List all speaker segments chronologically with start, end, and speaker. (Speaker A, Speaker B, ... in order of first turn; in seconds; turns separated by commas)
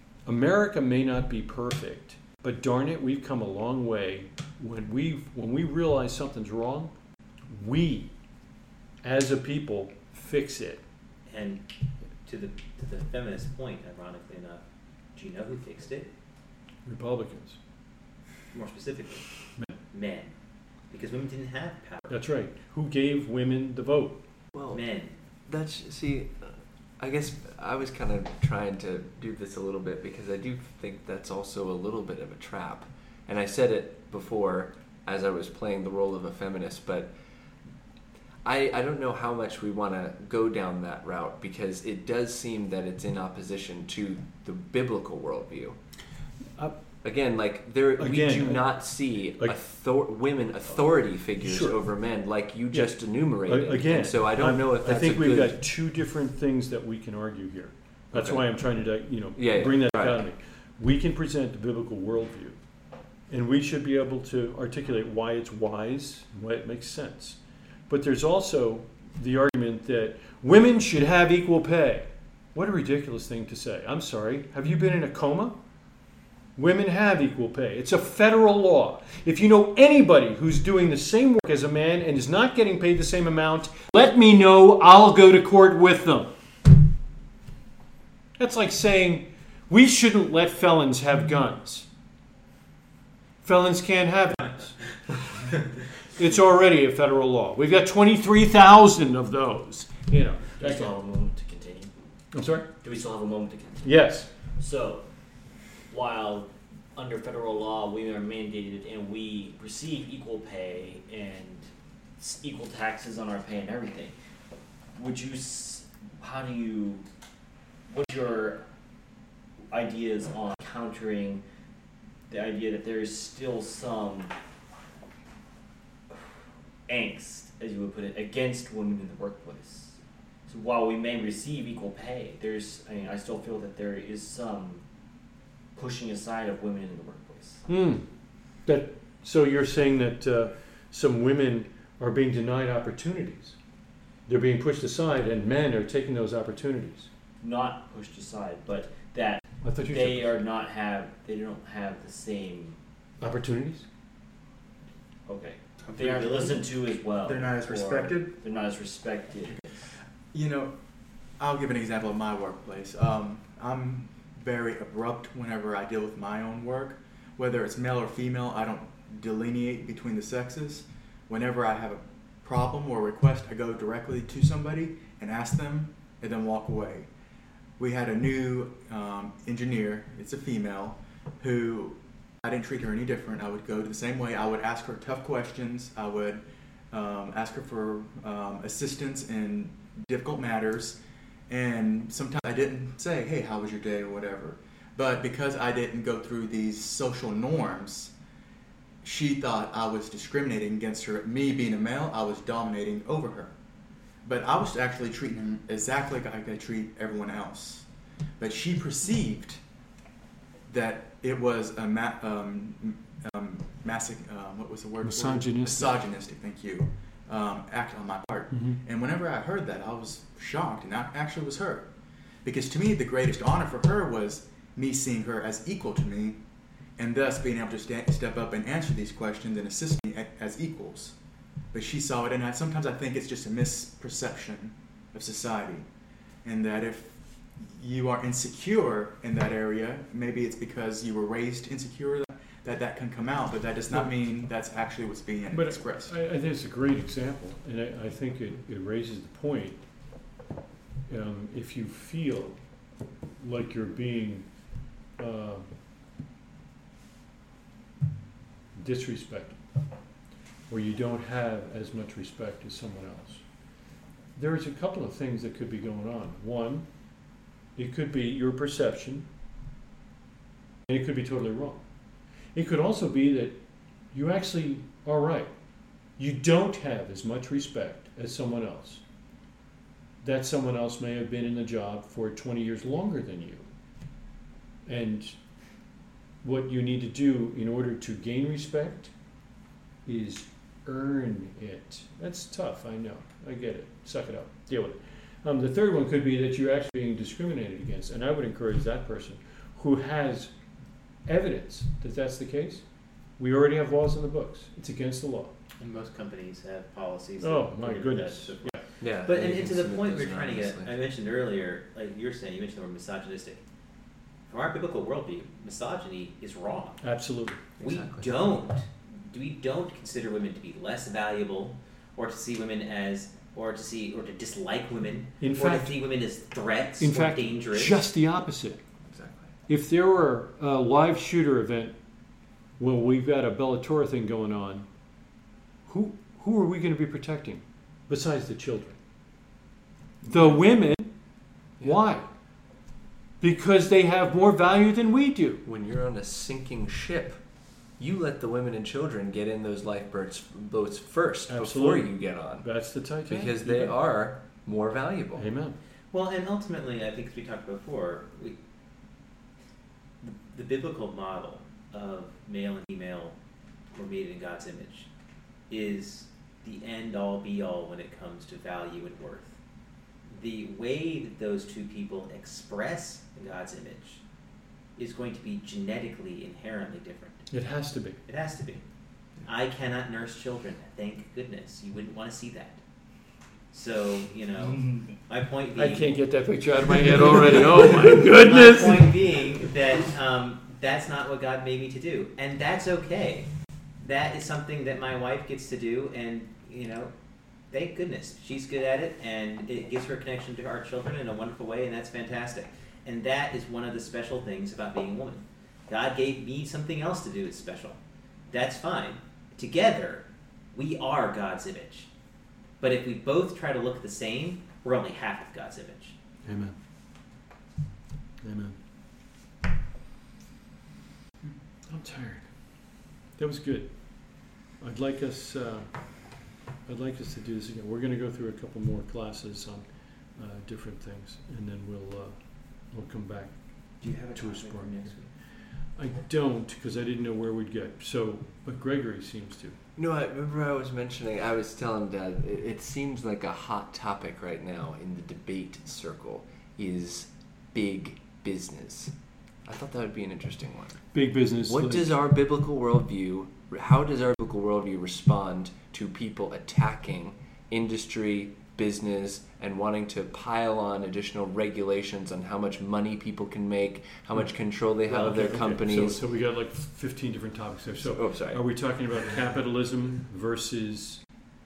Speaker A: 0.2-6.9, Speaker A: 7.5-8.1, Speaker A: 9.0-10.8, Speaker B: 11.2-11.7, Speaker B: 12.2-16.1, Speaker A: 16.8-17.6, Speaker B: 18.5-20.3, Speaker B: 20.9-22.2, Speaker A: 22.1-24.2, Speaker C: 24.5-37.1, Speaker B: 24.7-25.1, Speaker C: 38.4-45.8, Speaker C: 47.0-55.6, Speaker A: 48.0-49.6, Speaker A: 51.4-51.8, Speaker A: 52.7-62.6, Speaker C: 58.1-58.5, Speaker C: 59.4-60.2, Speaker A: 63.3-75.6, Speaker A: 76.5-86.3, Speaker A: 88.4-91.9, Speaker A: 93.4-100.9, Speaker D: 100.6-101.9, Speaker A: 102.3-102.7, Speaker D: 102.8-105.1, Speaker A: 103.8-104.3, Speaker D: 105.8-114.1, Speaker D: 114.9-117.0, Speaker D: 117.9-118.6, Speaker D: 119.7-121.4, Speaker D: 122.3-124.3, Speaker D: 126.9-134.8, Speaker D: 135.7-137.6, Speaker A: 137.7-143.6, Speaker A: 144.3-147.1, Speaker D: 147.4-152.8, Speaker A: 149.6-150.4, Speaker A: 153.2-153.8, Speaker D: 155.2-159.8, Speaker E: 156.2-156.5, Speaker E: 157.2-158.4, Speaker E: 159.5-160.8, Speaker E: 161.4-177.1, Speaker E: 177.8-198.1, Speaker E: 199.0-203.5, Speaker E: 204.2-209.6, Speaker E: 210.7-221.9, Speaker A: 215.0-216.0, Speaker A: 218.5-218.8, Speaker E: 222.4-226.4, Speaker E: 226.9-231.2, Speaker E: 231.7-235.9, Speaker E: 236.4-246.2, Speaker A: 245.5-249.8, Speaker A: 251.1-252.7, Speaker A: 253.4-255.7, Speaker A: 258.7-259.6, Speaker A: 260.7-263.6, Speaker A: 264.3-267.1, Speaker A: 267.7-269.3, Speaker A: 270.9-271.8, Speaker A: 272.5-275.5, Speaker A: 276.1-279.0, Speaker A: 280.2-283.7, Speaker A: 284.9-285.4, Speaker A: 286.4-289.1, Speaker A: 290.0-305.5, Speaker B: 305.8-313.6, Speaker A: 307.4-308.8, Speaker C: 309.0-310.9, Speaker B: 314.5-317.0, Speaker A: 317.0-317.6, Speaker B: 317.8-328.0, Speaker C: 317.8-318.5, Speaker A: 325.4-326.0, Speaker A: 327.0-328.8, Speaker C: 329.1-329.5, Speaker A: 329.7-332.0, Speaker A: 332.8-334.9, Speaker A: 335.9-339.0, Speaker A: 340.2-341.2, Speaker A: 341.8-342.3, Speaker A: 343.4-345.6, Speaker C: 345.6-355.5, Speaker A: 351.5-354.0, Speaker A: 355.3-355.8, Speaker B: 356.1-358.6, Speaker B: 360.2-363.4, Speaker B: 363.9-365.1, Speaker B: 365.7-369.6, Speaker B: 370.3-374.2, Speaker B: 375.0-377.5, Speaker A: 377.5-378.2, Speaker B: 378.2-378.8, Speaker B: 379.4-382.8, Speaker B: 383.7-386.2, Speaker A: 385.8-389.4, Speaker B: 386.9-397.1, Speaker B: 397.7-412.1, Speaker B: 412.8-416.1, Speaker A: 416.4-416.8, Speaker A: 418.4-418.8, Speaker A: 421.9-439.8, Speaker B: 434.0-435.3, Speaker C: 439.9-449.1, Speaker C: 449.6-466.2, Speaker A: 451.1-452.2, Speaker A: 465.0-471.2, Speaker C: 468.0-468.6